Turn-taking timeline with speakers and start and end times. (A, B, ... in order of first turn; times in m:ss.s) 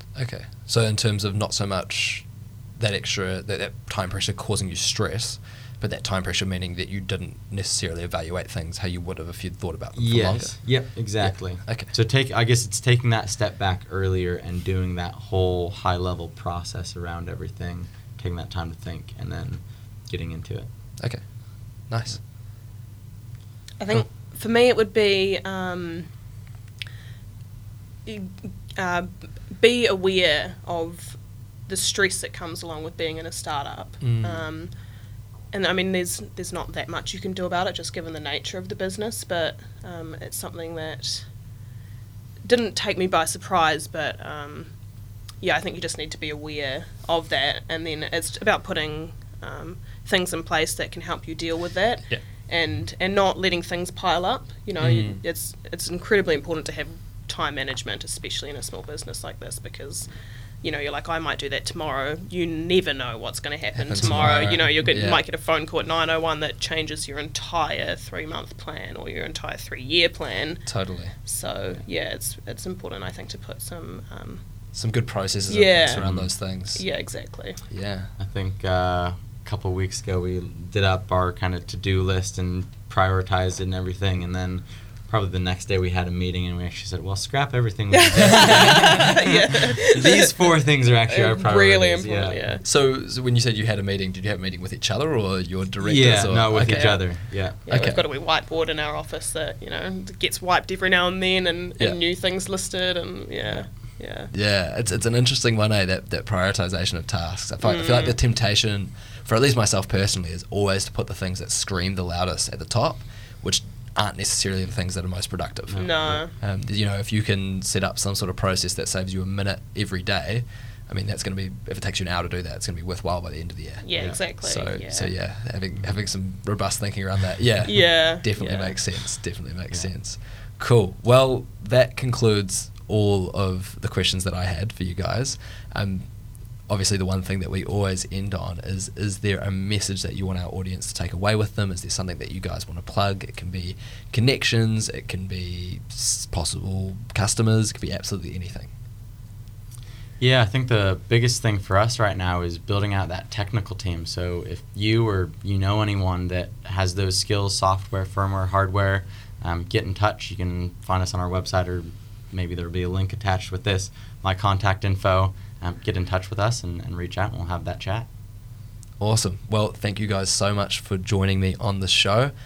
0:00.1-0:11.9 A
0:10.0-0:20.7 B
0:21.0-0:22.2 A
0:23.8-0:26.1 C
0:28.0-0:34.7 C
0:34.0-0:34.5 A
0:35.5-0:41.3 C
0:42.4-0:44.7 C
0:45.4-1:00.1 C
0:54.8-0:55.2 A
1:00.6-1:10.7 C
1:03.8-1:05.2 A
1:10.6-1:11.1 A
1:11.2-1:14.4 C
1:14.7-1:16.8 A
1:15.5-1:16.0 C
1:16.0-1:16.3 B
1:16.7-1:17.6 C
1:17.7-1:18.1 A
1:18.2-1:32.5 B
1:27.9-1:30.5 C
1:28.3-1:29.1 A
1:31.1-1:32.6 C
1:32.6-1:38.0 A
1:35.8-1:37.9 B
1:36.6-1:37.1 C
1:37.6-1:44.3 C
1:44.3-2:16.1 A
1:47.6-1:48.2 C
1:55.7-1:56.1 B
1:55.7-1:56.3 C
2:03.8-2:05.1 C
2:07.6-2:08.8 C
2:16.7-2:28.7 A
2:30.2-2:48.1 B
2:49.0-2:52.3 A